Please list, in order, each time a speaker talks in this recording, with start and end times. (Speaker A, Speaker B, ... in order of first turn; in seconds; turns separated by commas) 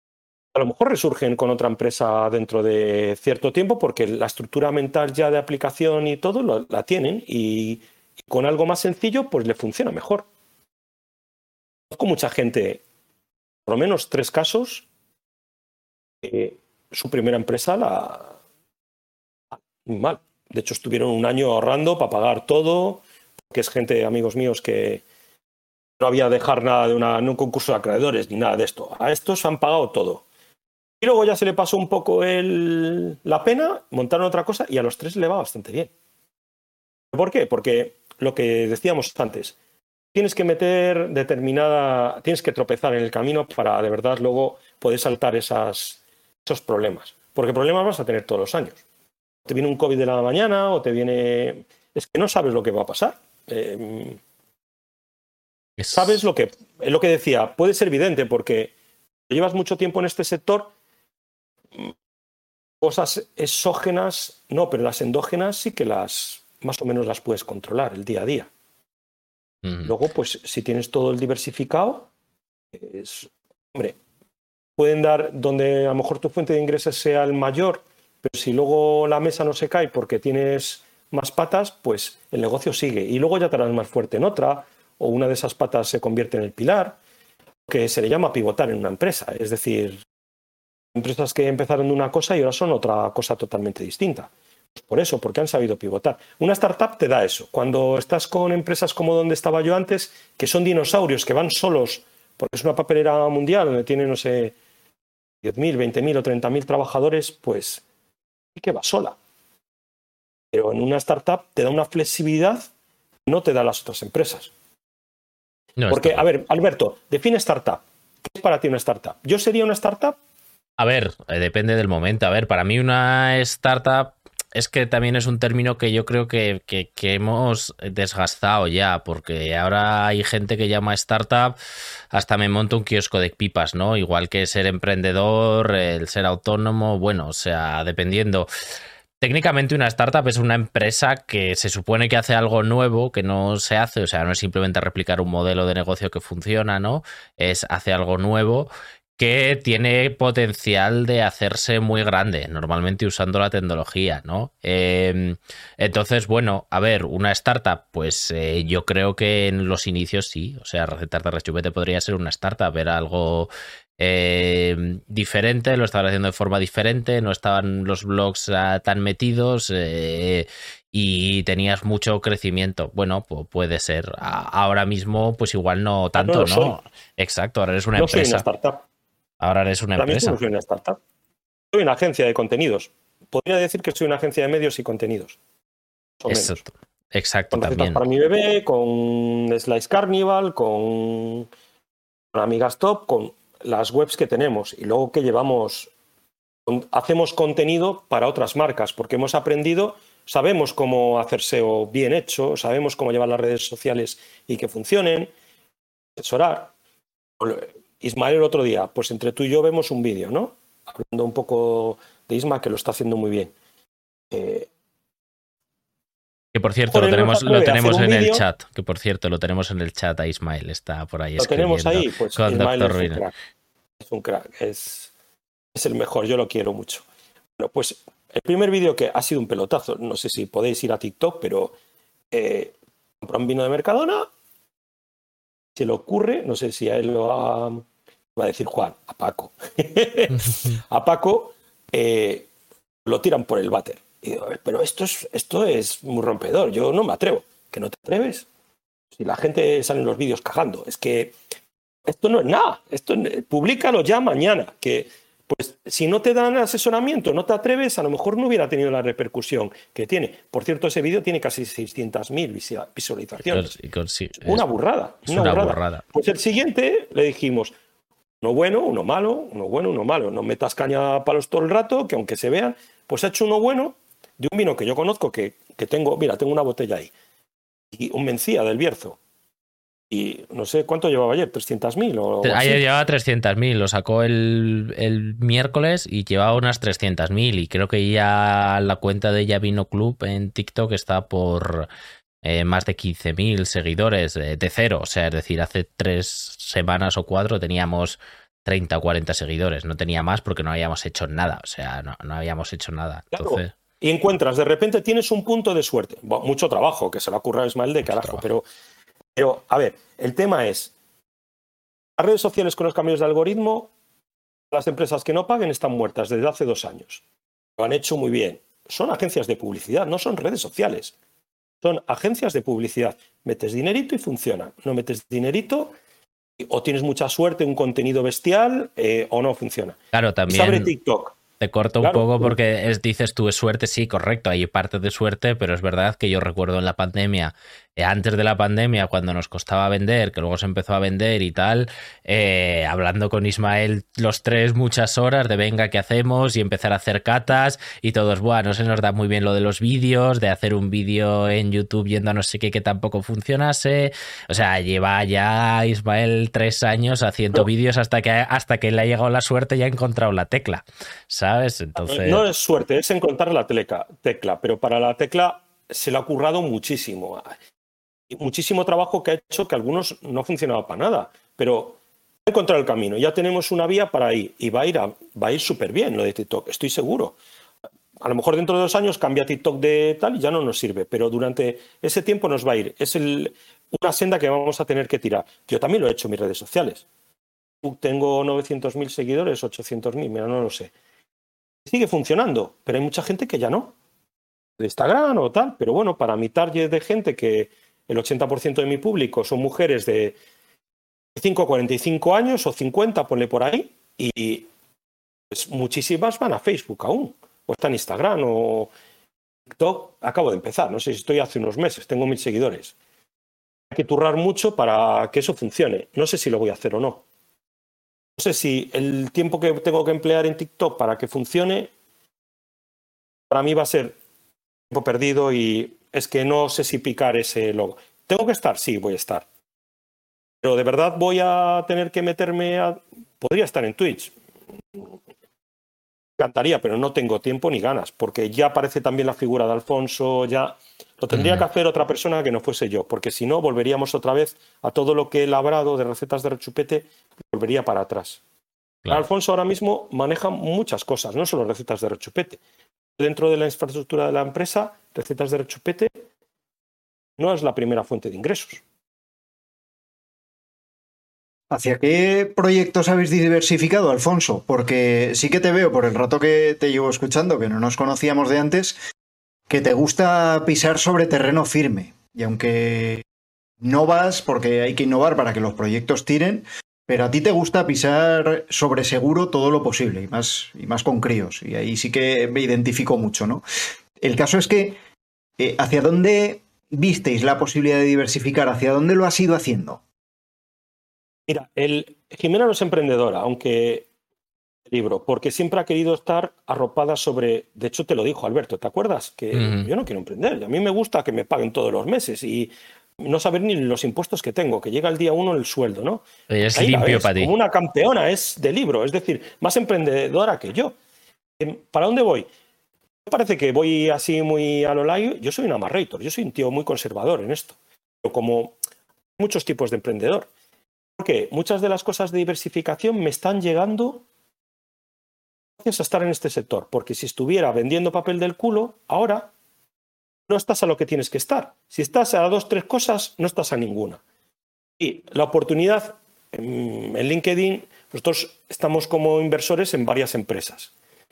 Speaker A: 0.5-10.2, Speaker A: 11.9-12.8, Speaker A: 13.7-14.8, Speaker A: 16.2-18.3, Speaker A: 19.6-25.0, Speaker A: 26.0-30.2, Speaker A: 31.0-35.9, Speaker A: 37.1-39.6, Speaker A: 40.1-48.8, Speaker A: 49.5-54.2, Speaker B: 55.8-56.0, Speaker A: 55.9-58.7, Speaker A: 59.3-60.7, Speaker A: 62.8-68.5, Speaker B: 69.6-69.9, Speaker A: 69.8-72.1, Speaker A: 72.7-74.0, Speaker A: 74.8-87.0, Speaker A: 87.7-90.0, Speaker A: 90.9-104.5, Speaker A: 105.4-107.8, Speaker A: 108.5-109.2, Speaker A: 110.5-112.7, Speaker A: 113.3-114.5, Speaker B: 115.8-116.2, Speaker A: 115.9-120.2, Speaker B: 120.8-131.6, Speaker B: 132.1-138.5, Speaker B: 139.2-178.4, Speaker A: 176.2-176.8, Speaker A: 177.9-178.8, Speaker B: 179.4-180.4, Speaker A: 180.0-181.0, Speaker A: 181.7-185.4, Speaker A: 186.2-186.6, Speaker B: 186.3-188.0, Speaker A: 187.5-191.5, Speaker A: 192.3-195.9, Speaker A: 196.7-205.3, Speaker A: 206.2-206.7, Speaker A: 207.4-213.5, Speaker A: 214.3-214.7, Speaker B: 216.5-223.2, Speaker A: 216.9-218.4, Speaker A: 221.4-223.3, Speaker A: 224.0-225.1, Speaker A: 225.7-227.0, Speaker A: 227.6-231.7, Speaker A: 232.3-234.3, Speaker A: 235.8-237.8, Speaker A: 238.3-242.5, Speaker B: 240.4-240.8, Speaker A: 243.1-248.4, Speaker A: 249.2-251.3, Speaker A: 252.1-263.7, Speaker B: 263.4-264.6, Speaker A: 264.4-267.7, Speaker B: 265.3-266.0, Speaker A: 268.4-277.1, Speaker A: 277.9-279.2, Speaker A: 280.1-282.8, Speaker B: 282.4-291.9, Speaker B: 292.4-303.7, Speaker A: 303.3-308.7, Speaker B: 308.1-308.4, Speaker A: 309.4-310.9, Speaker A: 312.2-313.9, Speaker A: 314.7-317.2, Speaker A: 317.8-321.1, Speaker A: 321.8-325.9, Speaker A: 326.6-330.0, Speaker B: 330.1-330.9, Speaker A: 330.5-331.4, Speaker B: 331.6-362.4, Speaker A: 332.0-332.6, Speaker A: 362.0-367.5, Speaker A: 368.3-377.4, Speaker A: 378.2-387.0, Speaker A: 387.8-390.9, Speaker A: 391.9-393.9, Speaker A: 394.8-400.4, Speaker A: 401.4-404.7, Speaker A: 405.5-408.9, Speaker A: 409.7-412.9, Speaker A: 413.9-417.2, Speaker A: 418.4-421.9, Speaker A: 423.5-424.2, Speaker A: 424.9-429.4, Speaker A: 430.6-434.3, Speaker A: 436.4-448.4, Speaker B: 441.3-441.6, Speaker A: 449.1-452.6, Speaker A: 453.2-456.1, Speaker A: 457.4-458.8, Speaker C: 461.7-469.0, Speaker C: 469.7-473.2, Speaker C: 473.8-483.6, Speaker C: 484.2-485.0, Speaker C: 485.6-490.0, Speaker A: 491.5-494.1, Speaker A: 494.9-510.9, Speaker B: 499.5-499.9, Speaker B: 506.5-507.5, Speaker A: 511.6-512.5, Speaker A: 513.2-518.8, Speaker A: 519.4-520.5, Speaker A: 521.2-524.2, Speaker A: 525.8-529.5, Speaker A: 530.5-534.2, Speaker A: 535.0-540.9